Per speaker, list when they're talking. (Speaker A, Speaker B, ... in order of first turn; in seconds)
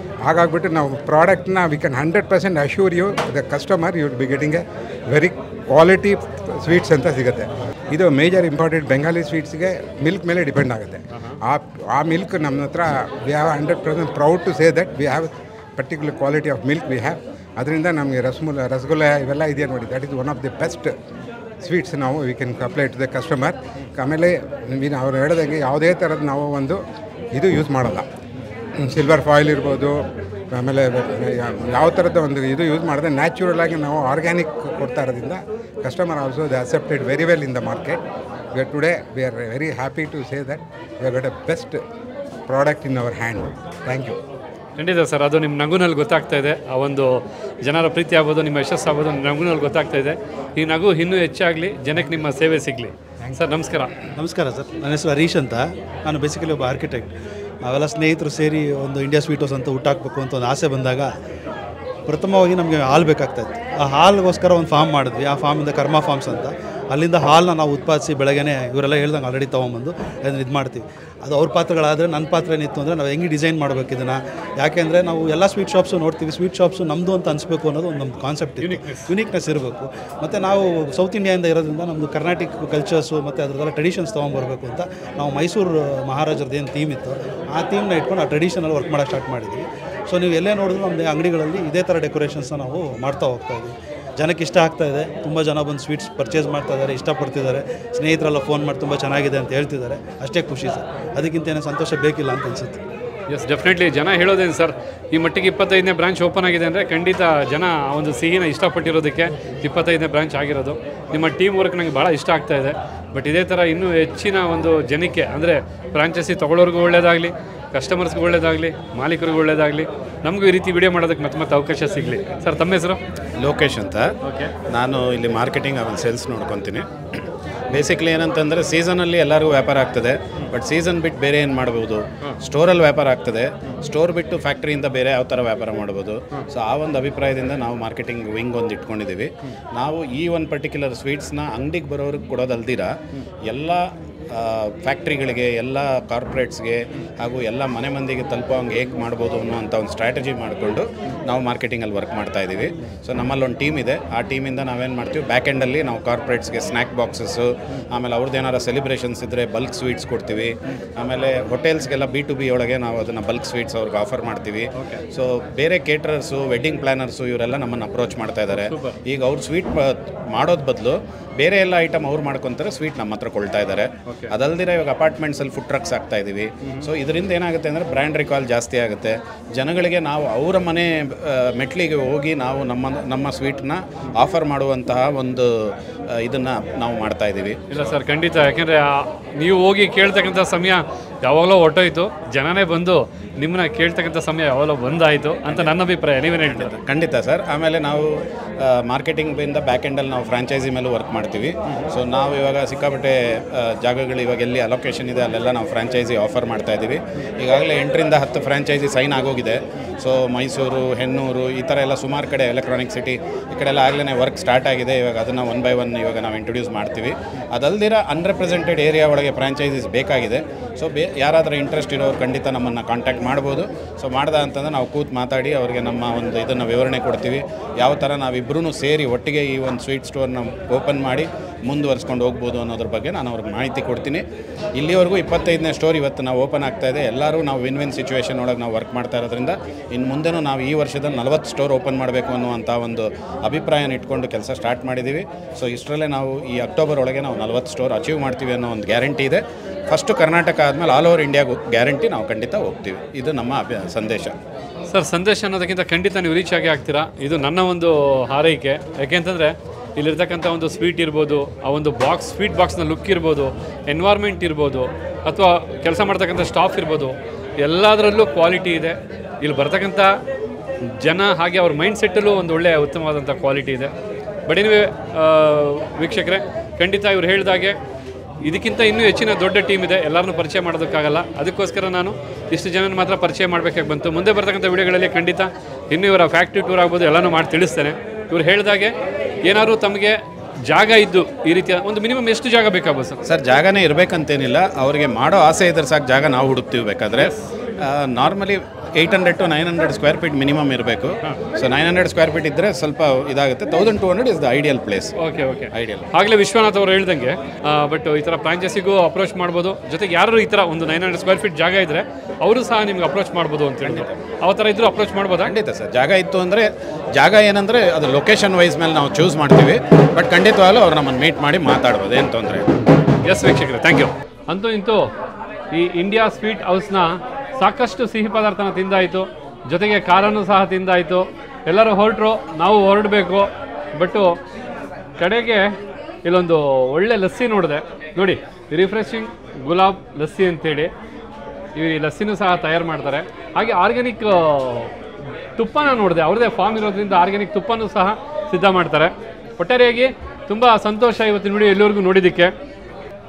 Speaker A: 0.2-20.9, 21.6-26.8, 27.3-28.1, 28.8-30.0, 30.5-38.0, 38.5-41.8, 42.5-44.2
Speaker B: 44.8-53.9, 78.6-79.1, 103.3-123.0, 124.2-124.5, 164.7-165.0, 168.6-169.0, 174.1-174.3, 176.6-176.9, 187.7-196.7, 254.9-270.1, 270.9-273.9, 274.5-277.8, 278.4-288.9, 289.4-293.2, 297.1-297.5, 305.2-315.5, 323.2-325.1, 325.7-334.4, 335.2-335.7, 336.2-340.9, 341.8-344.9, 345.6-352.5
Speaker C: 54.2-57.1, 57.6-61.1, 62.1-102.8
Speaker D: 123.4-124.1, 124.7-126.8, 127.7-142.9, 143.4-185.5, 186.1-187.6, 195.4-195.7, 196.4-234.2, 234.8-254.3, 293.2-305.1, 305.7-306.1, 313.8-314.1, 315.4-322.7